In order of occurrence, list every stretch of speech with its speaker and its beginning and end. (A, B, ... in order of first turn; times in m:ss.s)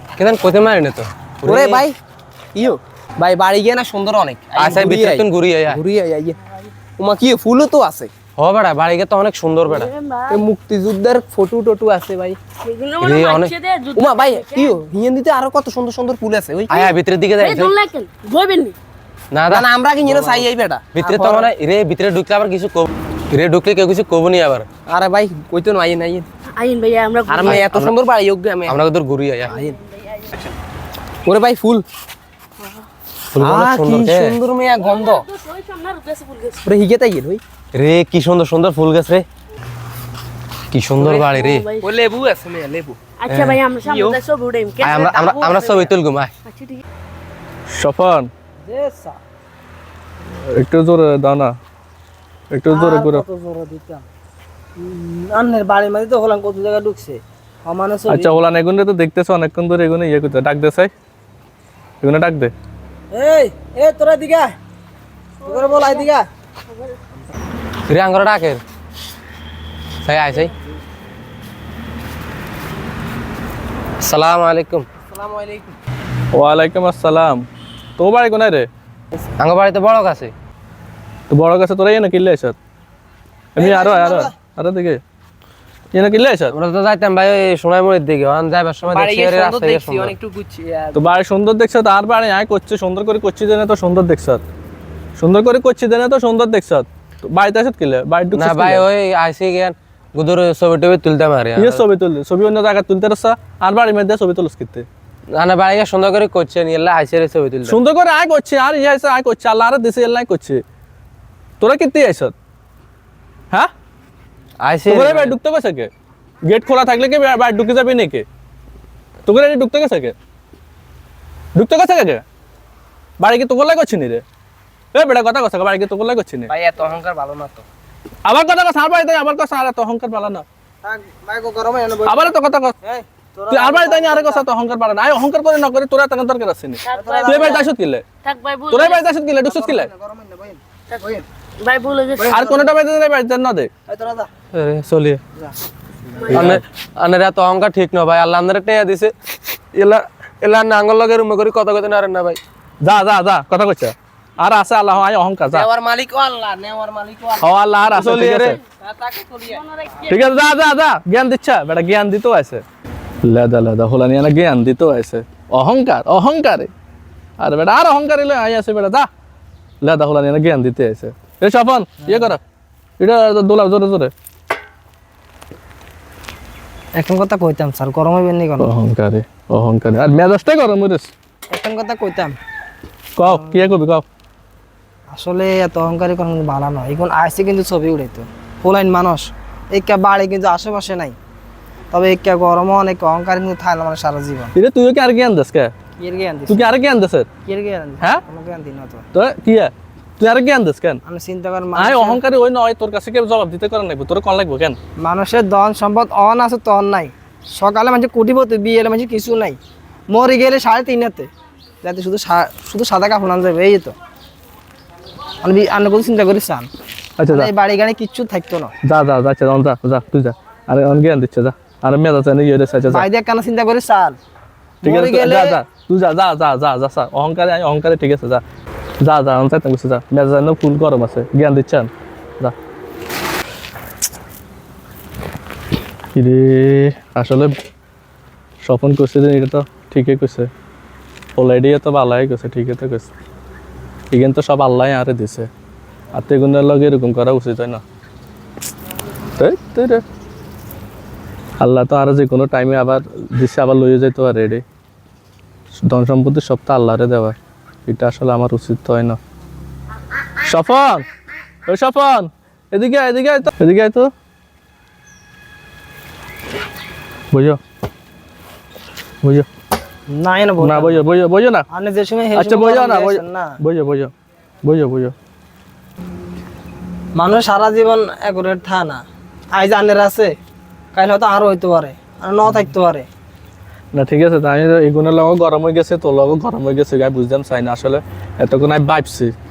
0:00.2-0:01.8 A
0:01.4-0:02.0 B
0:02.5-0:06.4 B
0:04.5-0:05.8 A
0:07.0-0:08.1 B
0:08.4-0:09.9 A
0:09.7-0:10.4 C
0:10.3-0:12.4 B
0:12.6-0:14.8 C
0:13.0-0:13.6 A
0:13.9-0:16.8 B
0:16.7-0:17.7 A
0:16.7-0:18.8 C
0:19.3-0:24.7 A
0:19.5-0:21.5 B
0:24.9-0:26.3 B
0:26.5-0:27.6 C
0:27.3-0:28.8 B
0:27.4-0:27.9 A
0:28.7-0:29.6 A
0:29.5-0:29.8 B
0:31.2-0:31.8 B
0:33.3-0:34.4 A
0:33.4-0:35.2 B
0:34.8-0:36.6 C
0:36.6-0:37.4 B
0:37.7-0:39.2 A
0:40.7-0:41.7 A
0:41.0-0:41.9 C
0:41.8-0:43.0 B
0:43.2-0:45.9 C
0:43.3-0:43.6 A
0:43.8-0:44.2 B
0:44.8-0:46.3 A
0:46.4-0:46.8 C
0:47.7-0:48.3 D
0:48.6-0:49.2 E
0:50.5-0:51.5 D
0:52.5-0:53.2 D
0:52.7-0:54.1 E
0:54.8-0:58.4 E
0:58.1-1:00.9 D
1:02.0-1:02.5 D
1:03.1-1:04.5 E
1:05.4-1:06.2 E
1:07.9-1:08.6 A
1:10.0-1:10.5 A
1:14.0-1:14.8 A
1:15.1-1:15.7 B
1:16.3-1:17.4 D
1:18.0-1:18.7 D
1:19.4-1:20.3 A
1:21.3-1:22.6 D
1:23.6-1:25.0 D
1:23.6-1:24.3 E
1:25.9-1:26.5 D
1:26.5-1:30.1 A
1:28.8-1:30.9 B
1:30.9-1:34.4 D
1:35.2-1:38.8 D
1:38.3-1:41.8 A
1:41.6-1:44.8 D
1:45.3-1:47.8 A
1:47.6-1:50.6 D
1:51.6-1:52.3 D
1:54.6-1:55.3 A
1:54.9-1:55.9 D
1:56.4-1:58.2 D
1:59.2-2:00.1 D
2:01.5-2:02.2 D
2:03.2-2:04.2 D
2:04.9-2:06.5 D
2:06.5-2:07.6 B
2:08.2-2:10.4 D
2:10.8-2:14.4 E
2:12.0-2:12.7 D
2:13.5-2:18.0 D
2:16.9-2:17.6 C
2:16.9-2:17.6 E
2:18.2-2:19.1 C
2:18.7-2:19.9 D
2:19.4-2:21.2 E
2:21.6-2:22.4 C
2:22.2-2:22.6 E
2:22.3-2:23.7 D
2:23.9-2:24.3 E
2:24.5-2:25.2 A
2:26.3-2:26.6 D
2:26.3-2:29.1 A
2:29.7-2:32.4 A
2:32.8-2:35.7 D
2:35.5-2:37.5 B
2:37.4-2:38.6 D
2:37.9-2:38.6 A
2:38.8-2:39.6 B
2:39.7-2:40.0 C
2:40.0-2:42.6 D
2:43.2-2:46.7 D
2:47.4-2:49.1 D
2:49.8-2:52.4 D
2:52.0-2:52.3 E
2:53.0-2:54.1 D
2:57.0-2:58.7 E
2:58.6-3:01.1 D
3:01.5-3:02.4 E
3:03.2-3:04.0 D
3:03.2-3:03.8 E
3:05.1-3:11.2 E
3:11.9-3:14.5 E
3:14.5-3:15.7 D
3:16.0-3:16.7 E
3:16.5-3:17.3 D
3:17.4-3:19.0 E
3:19.1-3:21.0 D
3:21.0-3:22.2 E
3:21.7-3:24.8 D
3:25.0-3:29.6 E
3:30.1-3:31.3 E
3:31.8-3:33.9 E
3:35.4-3:36.7 E
3:37.2-3:37.5 D
3:37.3-3:38.7 E
3:38.8-3:43.1 D
3:42.9-3:44.2 E
3:44.8-3:45.6 E
3:44.8-3:48.4 D
3:49.0-3:51.9 D
3:56.1-3:57.5 D
3:58.6-4:00.5 D
4:01.4-4:03.1 D
4:04.1-4:05.5 D
4:06.1-4:07.8 D
4:09.4-4:10.0 D
4:11.6-4:14.6 D
4:15.8-4:17.4 D
4:17.9-4:19.2 D
4:20.4-4:21.0 D
4:21.7-4:24.1 D
4:27.3-4:27.6 D
4:30.1-4:31.0 E
4:30.6-4:31.6 D
4:31.7-4:33.6 E
4:32.3-4:34.1 D
4:34.6-4:35.1 D
4:37.1-4:39.0 E
4:39.5-4:40.3 E
4:40.9-4:43.1 E
4:43.9-4:49.3 D